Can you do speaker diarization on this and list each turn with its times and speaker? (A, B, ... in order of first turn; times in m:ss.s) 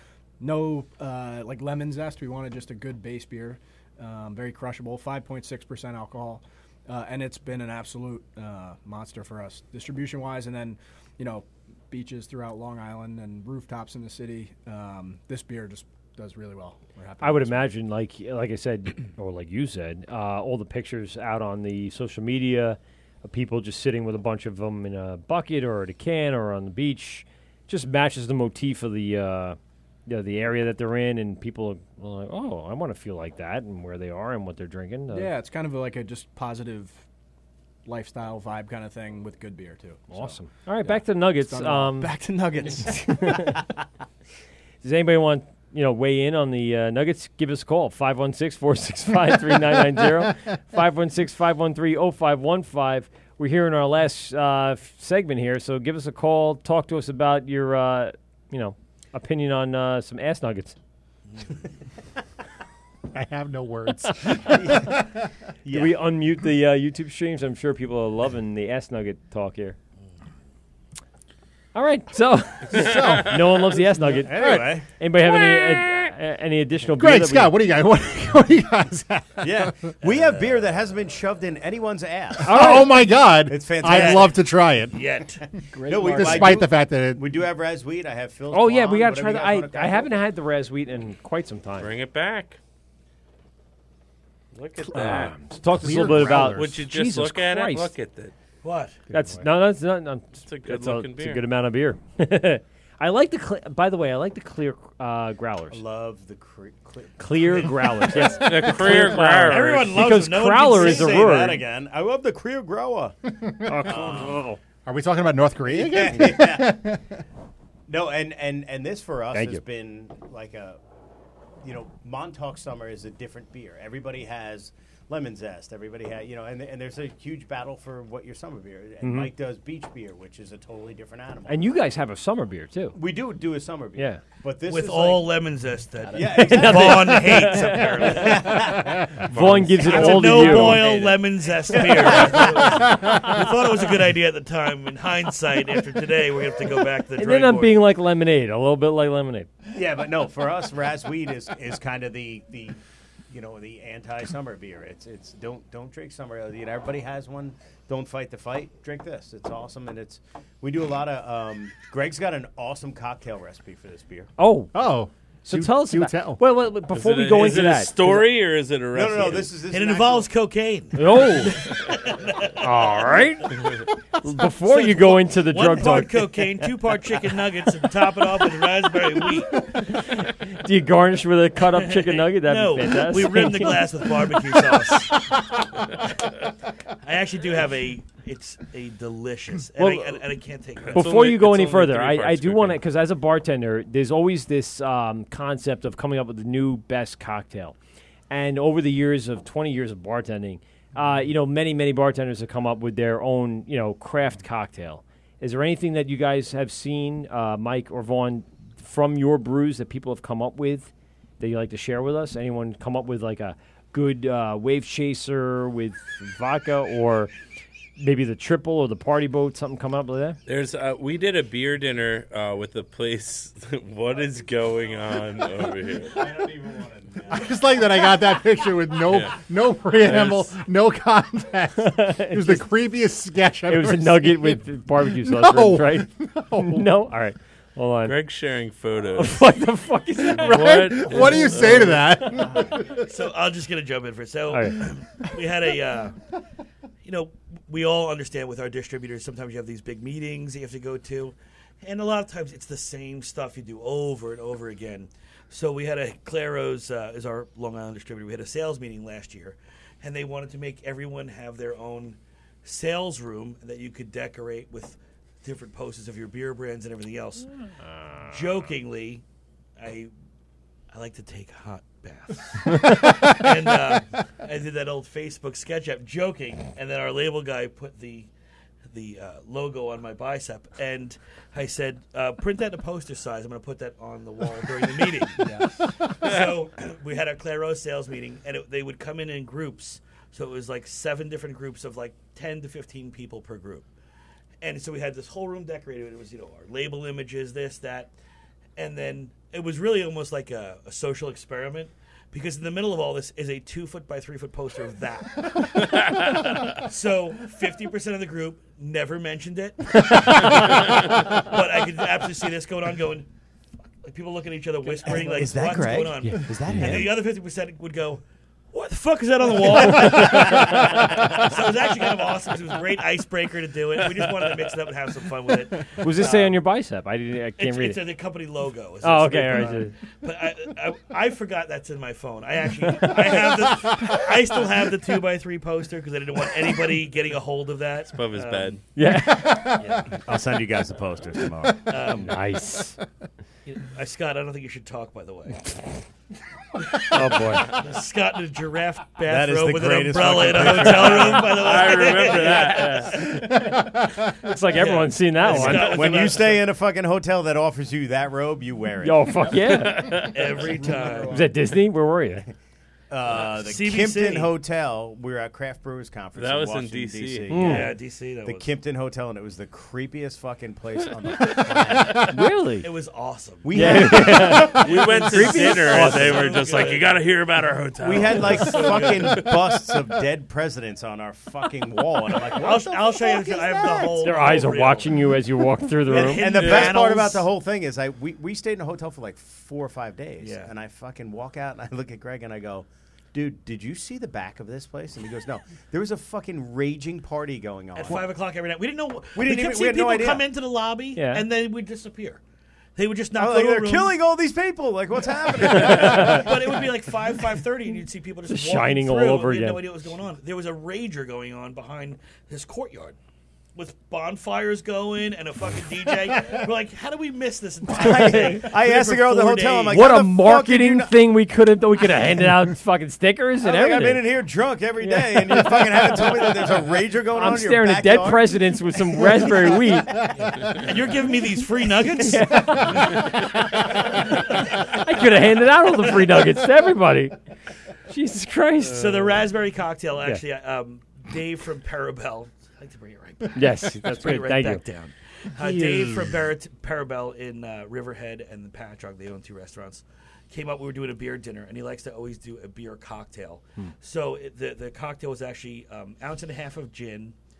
0:00.4-0:17.7 A
0:17.2-0:35.3 B
0:35.1-0:37.0 A
0:37.8-0:43.4 A
0:40.1-0:42.2 B
0:42.8-0:43.6 B
0:44.8-1:00.8 B
1:03.1-1:05.0 C
1:04.4-1:05.0 D
1:05.6-1:06.0 D
1:05.7-1:09.8 B
1:11.7-1:17.6 B
1:12.7-1:13.4 C
1:14.0-1:14.8 D
1:14.3-1:14.7 C
1:17.0-1:19.9 C
1:19.4-1:22.7 D
1:20.0-1:20.7 E
1:22.4-1:25.0 C
1:22.4-1:23.0 B
1:23.4-1:24.4 D
1:23.9-1:24.4 E
1:24.9-1:25.4 E
1:25.7-1:26.7 A
1:25.9-1:30.2 D
1:26.1-1:27.2 C
1:28.5-1:31.9 B
1:31.8-1:32.6 F
1:34.5-1:35.4 F
1:34.9-1:37.9 B
1:35.6-1:36.8 C
1:35.9-1:38.3 F
1:38.6-1:39.0 E
1:39.1-1:45.8 B
1:40.4-1:41.4 F
1:45.7-1:48.4 D
1:47.2-1:51.6 B
1:48.4-1:50.0 F
1:49.4-1:51.3 E
1:50.7-1:53.2 D
1:53.5-1:54.1 C
1:53.6-1:54.6 B
1:53.8-1:54.4 D
1:54.8-1:57.0 C
1:55.7-1:56.9 D
1:57.9-2:00.8 D
1:59.3-1:59.6 B
2:01.6-2:11.7 D
2:09.0-2:09.3 B
2:11.5-2:13.0 B
2:12.9-2:15.4 D
2:14.0-2:14.2 B
2:14.6-2:18.4 E
2:16.1-2:19.2 D
2:16.4-2:21.1 B
2:18.8-2:19.1 C
2:19.3-2:19.8 F
2:19.8-2:21.2 D
2:19.8-2:27.8 E
2:21.7-2:22.8 D
2:27.2-2:29.5 B
2:29.7-2:32.8 D
2:33.3-2:44.3 D
2:44.4-2:44.7 B
2:44.7-2:46.4 C
2:45.4-2:48.3 B
2:46.9-2:49.5 F
2:48.9-2:50.3 D
2:49.7-2:53.0 E
2:50.9-2:51.6 B
2:52.6-2:53.7 B
2:54.2-2:56.4 B
2:54.6-2:59.7 E
2:59.7-3:04.1 B
3:01.8-3:05.4 E
3:07.0-3:11.2 E
3:09.8-3:10.2 B
3:10.9-3:17.7 B
3:10.9-3:12.8 F
3:18.3-3:37.3 B
3:38.0-3:40.4 B
3:40.4-3:46.3 F
3:46.0-3:47.5 D
3:47.3-3:56.9 C
3:49.1-3:49.3 F
3:50.0-3:50.5 F
3:51.8-3:52.7 B
3:53.7-3:58.2 B
3:58.0-3:59.4 F
3:59.2-4:02.4 B
4:00.3-4:03.0 C
4:00.4-4:02.0 F
4:03.0-4:06.2 E
4:04.5-4:04.8 B
4:07.0-4:27.5 E
4:28.3-4:29.2 E
4:29.8-4:30.1 E
4:30.9-4:38.3 E
4:38.9-4:53.9 E
4:45.4-4:45.8 A
4:54.6-4:58.1 E
4:58.8-5:13.2 E
5:14.0-5:26.6 E
5:15.0-5:17.2 D
5:16.2-5:17.1 B
5:26.0-5:28.0 B
5:27.6-5:38.8 E
5:29.0-5:29.9 B
5:38.1-5:38.8 F
5:39.0-5:39.8 B
5:39.4-5:39.8 C
5:39.8-5:40.1 E
5:40.2-5:42.0 D
5:41.8-5:42.4 E
5:42.2-5:43.0 B
5:43.6-5:45.7 E
5:46.8-5:53.7 E
5:47.1-5:47.7 B
5:49.2-5:51.8 D
5:50.9-5:53.3 F
5:54.3-5:56.2 B
5:54.7-5:56.7 E
5:55.5-5:59.4 D
5:59.0-6:00.3 B
5:59.9-6:00.3 F
6:00.2-6:01.5 E
6:01.3-6:02.5 B
6:03.1-6:12.4 D
6:03.3-6:04.6 E
6:06.4-6:07.6 F
6:07.5-6:07.9 B
6:07.6-6:08.7 E
6:12.3-6:12.9 B
6:12.8-6:17.2 E
6:13.6-6:15.0 D
6:13.7-6:16.7 B
6:14.5-6:19.2 F
6:18.0-6:24.5 D
6:18.0-6:19.6 E
6:22.5-6:25.2 E
6:24.2-6:26.5 B
6:26.1-6:27.5 E
6:26.1-6:38.3 D
6:26.6-6:26.9 F
6:30.4-6:30.7 E
6:37.9-6:42.4 E
6:39.3-6:40.5 D
6:41.2-6:41.4 B
6:43.0-6:44.2 E
6:43.3-6:46.8 D
6:45.6-6:46.5 B
6:45.7-6:53.2 E
6:48.5-6:49.8 B
6:53.7-7:00.1 E
6:57.9-7:01.2 D
6:58.0-6:58.6 B
6:59.9-7:04.3 B
7:03.6-7:08.6 D
7:05.0-7:06.4 B
7:07.3-7:10.2 B
7:09.2-7:09.7 D
7:10.4-7:13.0 E
7:12.2-7:17.3 B
7:18.1-7:19.1 B
7:18.9-7:37.3 E
7:23.5-7:24.8 B